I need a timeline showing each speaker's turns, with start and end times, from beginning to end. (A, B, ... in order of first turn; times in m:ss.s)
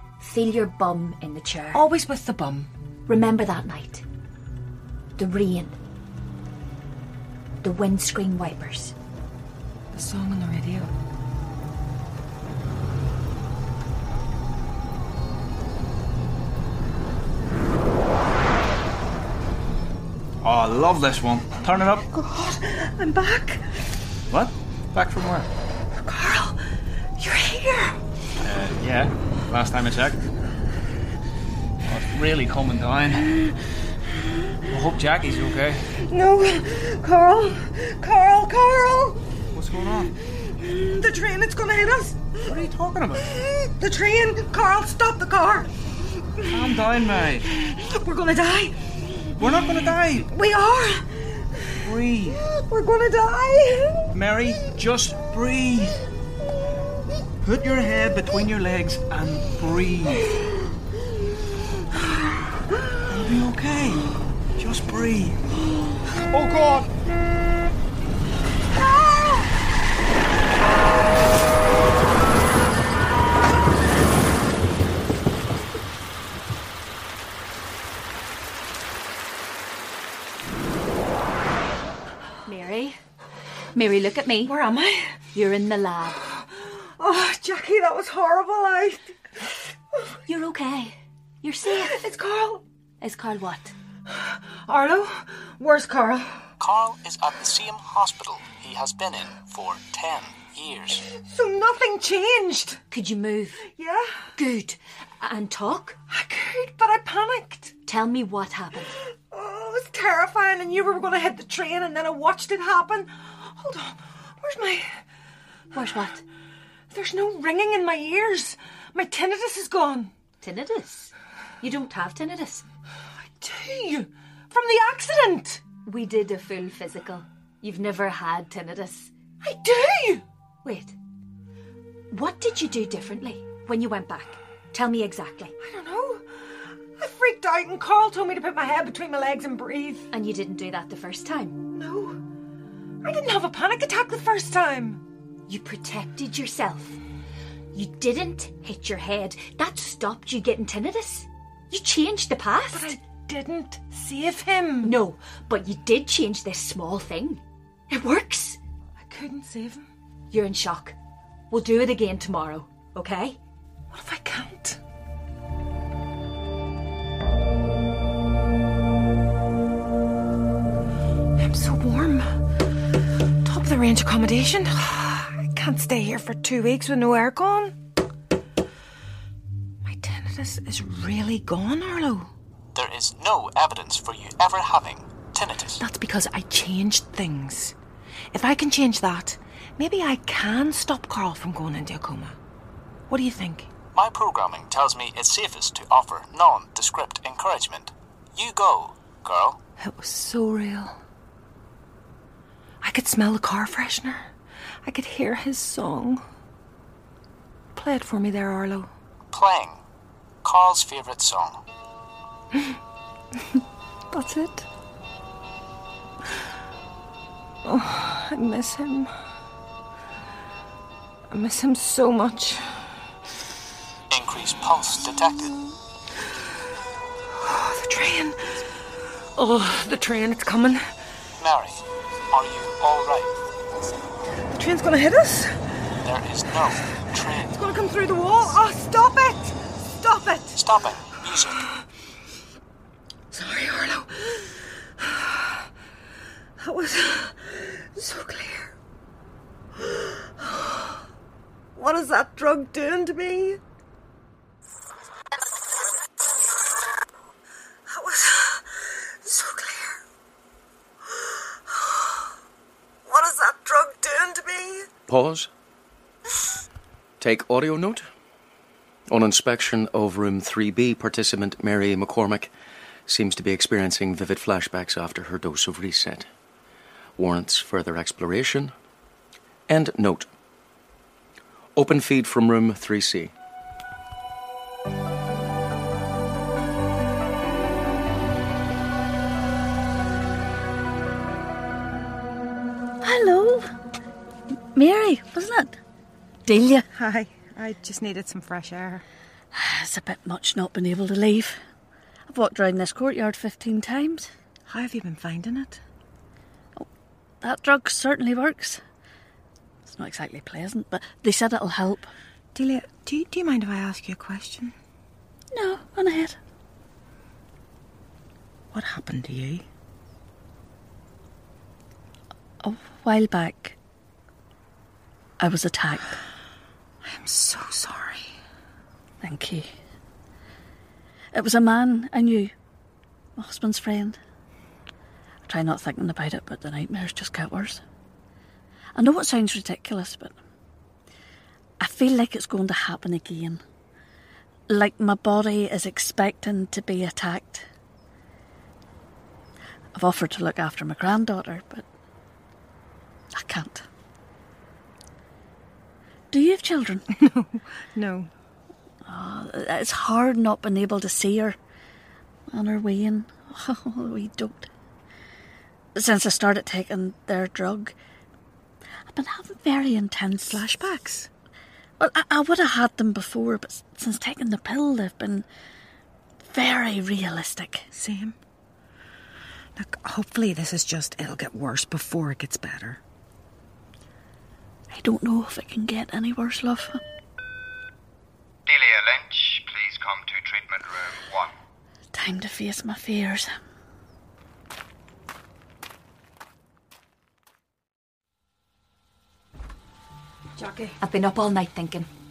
0:00.2-0:01.9 A
0:01.7-0:02.7 B
0:03.1-0:04.0 A
0:05.2-0:05.8 A
0:07.6-0:08.9 A
0:09.9-0:10.9 B
0:20.4-0:22.0 C
0:22.1-0:23.7 B
0:24.3-0:25.5 C
0:26.0-0:26.7 B
0:27.2-0:28.0 B
0:28.4-0:30.2 C
0:31.8-0:33.4 C
0:34.7-0:35.9 C
0:35.9-0:39.2 B
0:39.5-0:40.1 C
0:40.4-0:42.6 B
0:42.5-0:43.3 C
0:43.2-0:45.7 B
0:46.4-0:46.8 B
0:46.5-0:47.5 C
0:47.4-0:51.6 B
0:49.4-0:50.3 C
0:51.8-0:52.4 C
0:52.4-0:54.1 B
0:54.1-0:56.0 C
0:57.4-1:00.3 C
1:03.1-1:05.4 C
1:06.2-1:06.9 C
1:08.8-1:09.4 B
1:22.4-1:23.0 A
1:23.8-1:24.6 A
1:24.4-1:25.2 B
1:25.3-1:26.2 A
1:26.5-1:29.2 B
1:30.3-1:32.1 A
1:31.7-1:32.6 B
1:33.0-1:33.7 A
1:34.1-1:36.4 B
1:36.6-1:41.1 D
1:41.2-1:42.8 B
1:42.9-1:43.6 A
1:43.6-1:44.3 B
1:44.4-1:46.0 A
1:46.1-1:47.7 B
1:47.9-1:49.0 A
1:49.3-1:55.0 B
1:55.7-1:56.2 A
1:56.9-2:00.1 B
2:00.4-2:02.6 A
2:03.4-2:05.6 B
2:05.8-2:09.1 A
2:09.4-2:10.2 B
2:10.6-2:10.9 A
2:12.1-2:15.5 A
2:15.6-2:20.1 B
2:20.1-2:21.6 A
2:21.7-2:22.2 B
2:23.0-2:25.0 B
2:25.5-2:27.0 A
2:27.7-2:33.0 A
2:32.7-2:35.0 B
2:34.8-2:38.6 A
2:39.0-2:39.9 B
2:40.3-2:41.0 A
2:41.5-2:43.4 A
2:43.9-2:44.8 B
2:51.4-2:52.4 B
2:53.4-2:57.8 B
2:59.8-3:02.3 B
3:02.8-3:05.8 D
3:05.8-3:07.8 B
3:08.3-3:12.4 B
3:13.1-3:13.7 B
3:13.9-3:19.6 D
3:19.8-3:21.0 B
3:22.8-3:24.3 B
3:24.8-3:26.2 B
3:27.8-3:28.9 B
3:29.3-3:29.8 D
3:30.4-3:31.6 D
3:34.1-3:34.7 B
3:37.6-3:39.1 B
3:41.3-3:42.9 B
3:44.1-3:45.6 D
3:47.3-3:48.6 B
3:49.4-3:50.9 B
3:51.4-3:53.3 D
3:54.5-3:55.6 B
3:56.0-3:57.7 D
3:57.5-4:00.6 B
4:00.6-4:01.6 D
4:03.3-4:05.5 B
4:06.6-4:08.7 B
4:09.8-4:11.0 B
4:11.8-4:13.6 B
4:17.9-4:20.0 B
4:21.7-4:22.2 B
4:23.1-4:24.9 B
4:25.1-4:25.5 E
4:27.2-4:28.1 E
4:29.1-4:32.5 E
4:33.1-4:36.3 E
4:37.2-4:38.7 E
4:39.7-4:40.3 E
4:41.8-4:43.3 E
4:53.0-4:53.7 F
4:54.7-4:55.8 F
4:56.5-4:56.8 F
4:57.0-4:59.0 B
4:59.5-5:01.6 F
5:02.3-5:04.3 F
5:04.7-5:05.8 B
5:07.4-5:08.8 F
5:09.8-5:12.1 F
5:12.6-5:14.8 B
5:15.5-5:16.4 F
5:18.7-5:19.6 B
5:22.6-5:23.8 F
5:25.4-5:26.2 F
5:27.0-5:28.3 B
5:29.2-5:29.7 F
5:31.3-5:32.5 F
5:33.4-5:34.2 F
5:35.5-5:37.8 F
5:39.0-5:40.4 F
5:41.8-5:43.6 F
5:44.7-5:47.7 F
5:49.9-5:51.8 F
5:53.3-5:53.9 F
5:56.3-5:57.1 F
5:57.2-5:58.3 B
5:59.1-6:01.6 F
6:02.5-6:04.7 F
6:06.0-6:08.0 F
6:09.1-6:10.6 F
6:10.3-6:11.3 B
6:12.0-6:15.4 F
6:16.4-6:17.9 F
6:17.9-6:18.4 B
6:19.8-6:23.0 B
6:24.9-6:27.0 F
6:28.7-6:31.5 G
6:32.1-6:33.6 F
6:40.6-6:41.0 B
6:41.0-6:42.1 A